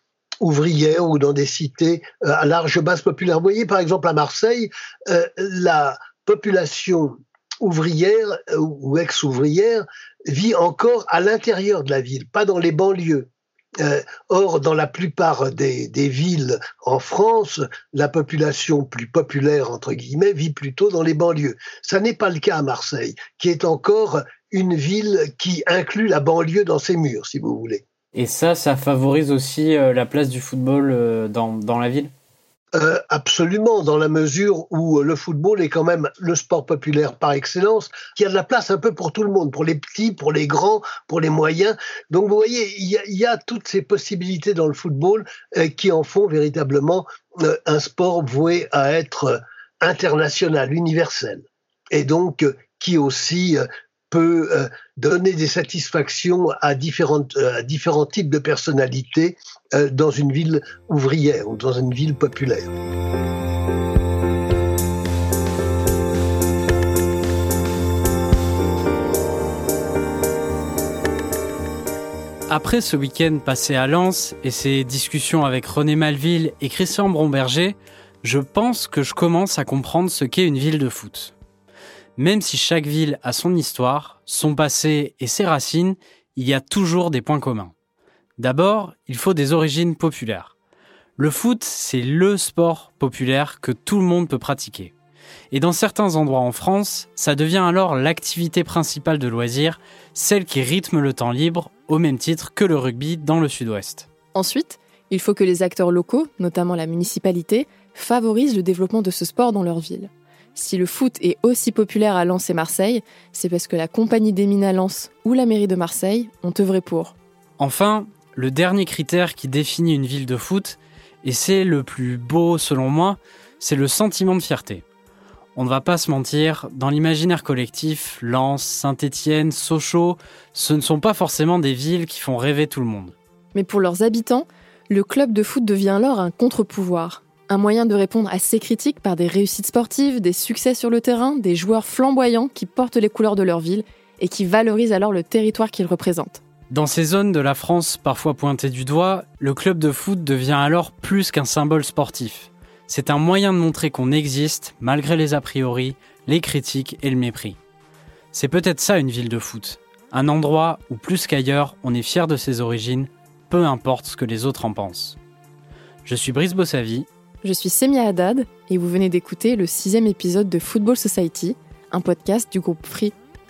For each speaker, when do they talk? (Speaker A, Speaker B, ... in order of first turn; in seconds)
Speaker A: 0.4-13.3, 13.8-27.8, 32.8-62.7
Speaker B: 28.1-32.1, 72.5-81.3, 82.2-87.7, 88.4-90.5, 91.2-94.9, 95.5-104.1, 117.6-124.8, 125.5-133.2, 146.7-157.6, 158.3-165.2, 166.1-167.1
Speaker C: 104.3-117.2, 133.5-146.4, 167.4-173.2